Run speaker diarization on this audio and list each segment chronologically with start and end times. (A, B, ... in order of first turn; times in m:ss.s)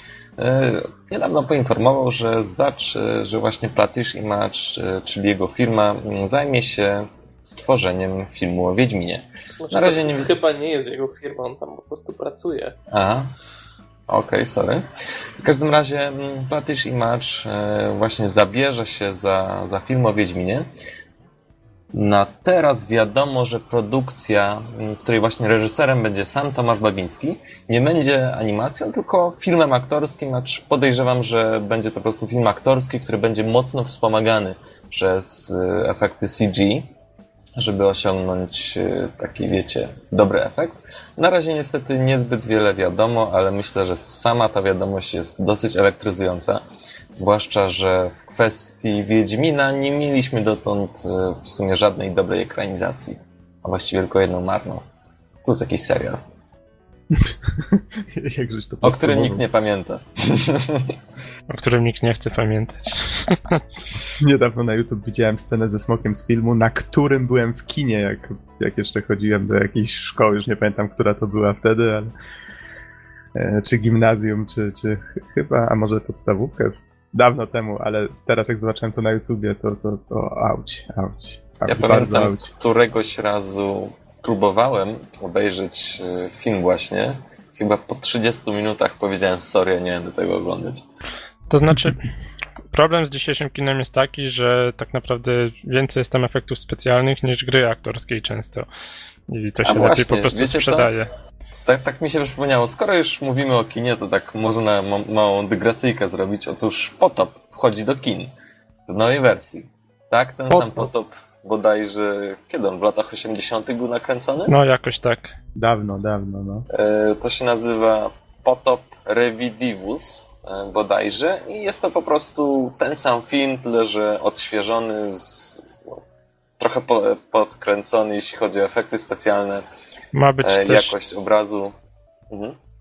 0:00.4-0:10.3 A
0:09.6-0:12.8 B
0:12.9-0:13.3 A
0:14.1-0:14.9 A
0:15.4-0:20.7 A
0:21.9-0:36.9 A
0:37.6-0:54.8 A
0:55.4-0:56.2 A
0:57.1-0:59.4 C
0:58.8-1:01.0 A
1:01.5-1:03.6 D
1:03.8-1:12.1 C
1:13.3-1:22.5 C
1:21.7-1:30.8 A
1:31.5-1:32.1 D
1:32.7-1:38.7 D
1:39.3-1:41.1 D
1:39.6-1:40.9 A
1:41.6-1:48.3 A
1:48.9-1:54.5 A
1:50.5-1:50.9 C
1:54.4-1:55.3 D
1:55.5-1:56.7 C
1:56.7-2:06.0 A
2:06.6-2:09.6 A
2:10.1-2:10.9 D
2:10.4-2:11.7 A
2:12.3-2:12.6 A